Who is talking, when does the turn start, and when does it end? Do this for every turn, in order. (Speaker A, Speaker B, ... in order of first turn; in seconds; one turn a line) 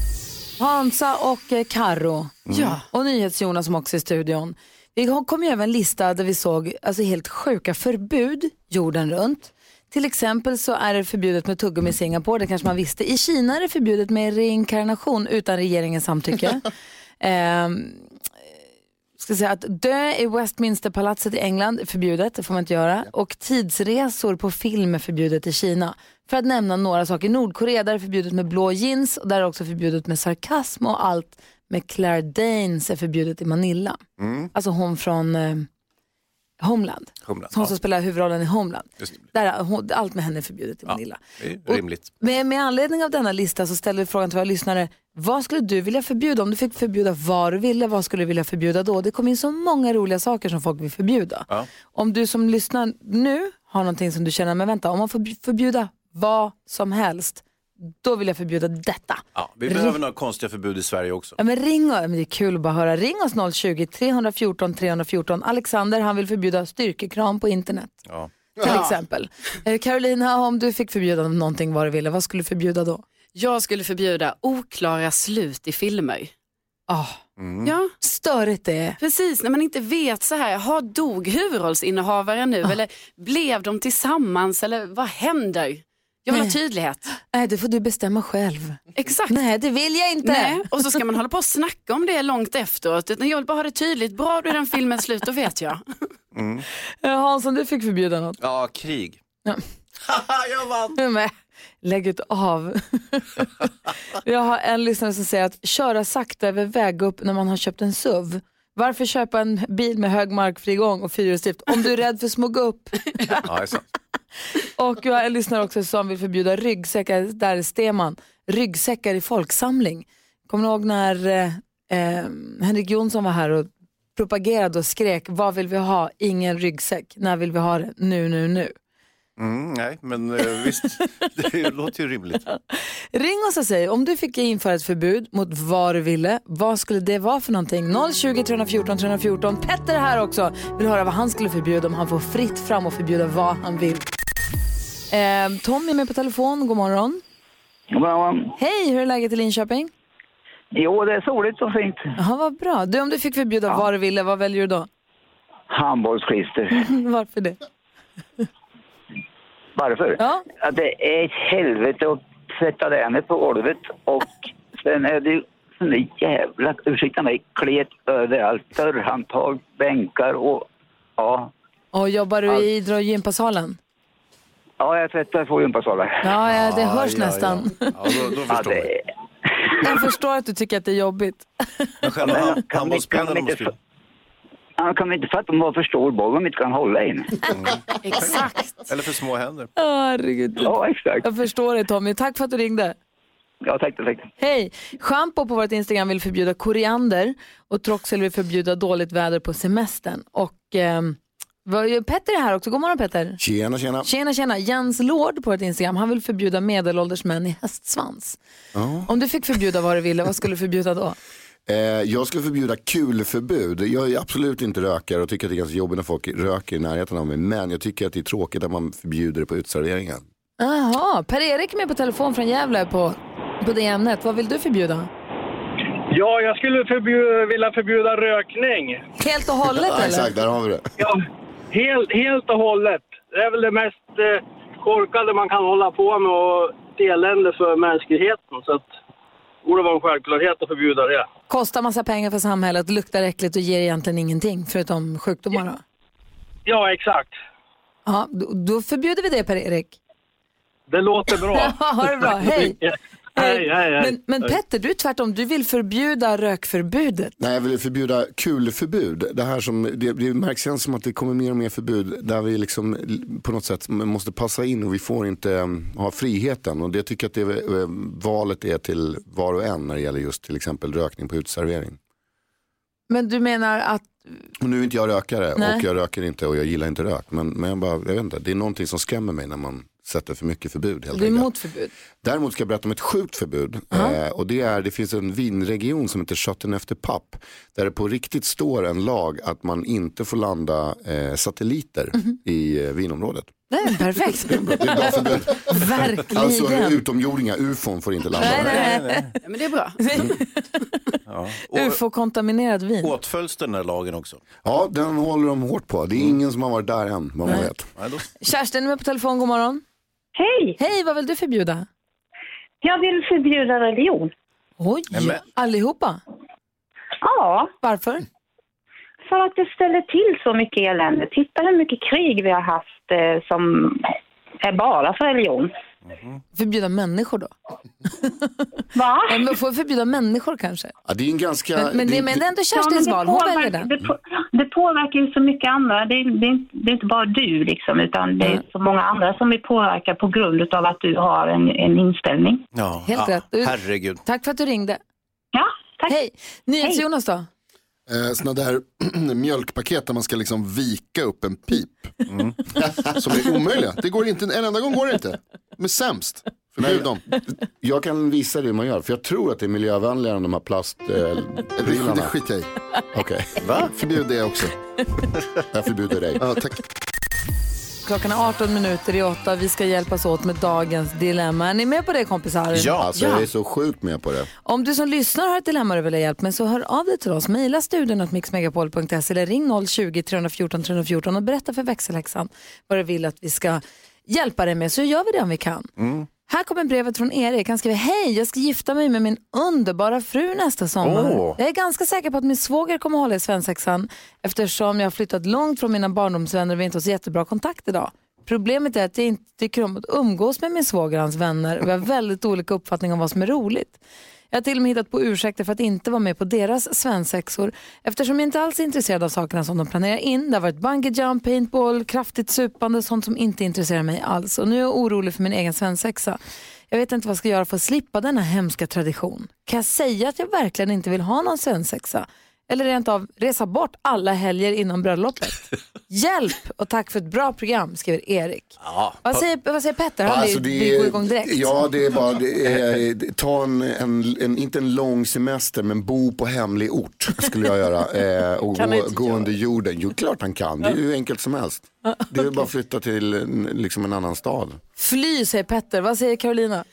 Speaker A: 0.6-16.7
Speaker B: 2.5-2.8
Speaker A: 17.2-18.1
Speaker A: 19.2-34.0
Speaker C: 34.2-34.5
Speaker A: 34.5-35.7
Speaker A: 36.6-57.4
Speaker C: 37.2-37.7
Speaker C: 40.9-42.1
Speaker A: 58.0-60.0
Speaker C: 59.4-61.4
Speaker A: 61.4-67.9
Speaker A: 68.6-73.0
Speaker B: 68.6-68.9
Speaker B: 73.3-76.3
Speaker A: 76.9-77.2
Speaker C: 77.4-77.7
Speaker B: 77.6-77.9
Speaker A: 78.0-79.0
Speaker B: 79.0-87.1
Speaker A: 87.3-90.8
Speaker B: 89.0-89.3
Speaker B: 90.2-96.0
Speaker C: 96.3-96.6
Speaker A: 97.0-98.4
Speaker C: 98.4-99.2
Speaker C: 100.1-100.9
Speaker A: 100.9-103.5
Speaker A: 104.1-113.4
Speaker C: 113.4-113.8
Speaker A: 114.6-128.7
Speaker C: 129.4-132.4
Speaker A: 132.5-144.1
Speaker A: 145.1-147.2
Speaker D: 147.9-148.5
Speaker A: 148.6-149.9
Speaker D: 150.7-152.0
Speaker A: 152.2-154.9
Speaker D: 155.7-156.9
Speaker A: 156.7-157.6
Speaker D: 159.7-171.5
Speaker A: 160.2-160.4
Speaker A: 171.9-173.8
Speaker D: 174.8-176.4
Speaker A: 176.2-178.0
Speaker C: 176.5-178.9
Speaker D: 178.5-179.0
Speaker A: 179.8-182.1
Speaker C: 182.0-183.7
Speaker D: 182.4-183.7
Speaker D: 184.8-187.5
Speaker C: 187.5-189.7
Speaker B: 188.0-188.9
Speaker A: 189.8-192.9
Speaker D: 190.6-191.2
Speaker D: 193.6-194.3
Speaker A: 194.4-203.4
Speaker E: 203.4-204.1
Speaker A: 204.0-208.4
Speaker E: 208.7-209.1
Speaker A: 209.1-211.2
Speaker E: 211.7-220.2
Speaker A: 220.6-225.1
Speaker F: 226.1-229.0
Speaker A: 229.2-230.3
Speaker E: 229.7-231.0
Speaker F: 231.7-238.9
Speaker F: 239.6-241.3
Speaker A: 241.5-245.8
Speaker F: 246.7-247.3
Speaker A: 248.1-250.0
Speaker F: 250.9-254.6
Speaker A: 251.4-252.8
Speaker A: 253.3-257.3
Speaker E: 257.4-272.0
Speaker A: 273.1-274.2
Speaker E: 274.6-281.5
Speaker A: 275.6-275.8
Speaker A: 281.1-281.9
Speaker E: 282.2-293.5
Speaker A: 293.7-297.0
Speaker E: 294.4-298.8
Speaker A: 298.4-299.3
Speaker C: 298.4-299.3
Speaker B: 299.4-300.2
Speaker A: 300.0-301.1
Speaker C: 301.3-302.0
Speaker A: 301.7-303.1
Speaker C: 303.0-304.4
Speaker E: 304.6-307.9
Speaker C: 307.6-308.2
Speaker A: 308.4-309.8
Speaker G: 310.4-310.8
Speaker A: 310.8-311.9
Speaker G: 312.8-314.3
Speaker A: 314.8-316.2
Speaker C: 315.1-315.4
Speaker G: 317.2-317.7
Speaker A: 317.8-318.2
Speaker G: 319.3-324.1
Speaker G: 324.6-325.7
Speaker A: 326.5-327.5
Speaker A: 328.2-328.6
Speaker G: 328.9-329.5
Speaker A: 329.3-330.9
Speaker E: 331.1-332.4
Speaker A: 331.8-333.9
Speaker G: 332.7-342.6
Speaker C: 342.7-344.2
Speaker A: 343.1-345.0
Speaker G: 345.5-346.2
Speaker A: 346.1-347.5
Speaker H: 348.1-352.1
Speaker C: 352.3-352.6
Speaker H: 353.0-357.2
Speaker E: 356.8-362.3
Speaker H: 361.8-362.7
Speaker E: 363.1-363.5
Speaker C: 363.6-363.9
Speaker H: 363.8-364.7
Speaker E: 365.7-366.4
Speaker H: 366.4-366.8
Speaker A: 368.0-372.9
Speaker C: 372.7-373.1
Speaker E: 373.0-374.5
Speaker B: 373.2-373.4
Speaker A: 374.6-385.9
Speaker C: 386.0-386.3
Speaker A: 386.4-404.0
Speaker C: 391.0-391.6
Speaker A: 404.5-416.4
Speaker A: 416.9-431.8
Speaker C: 428.9-429.2
Speaker E: 430.2-444.8
Speaker B: 438.8-439.5
Speaker A: 444.9-446.8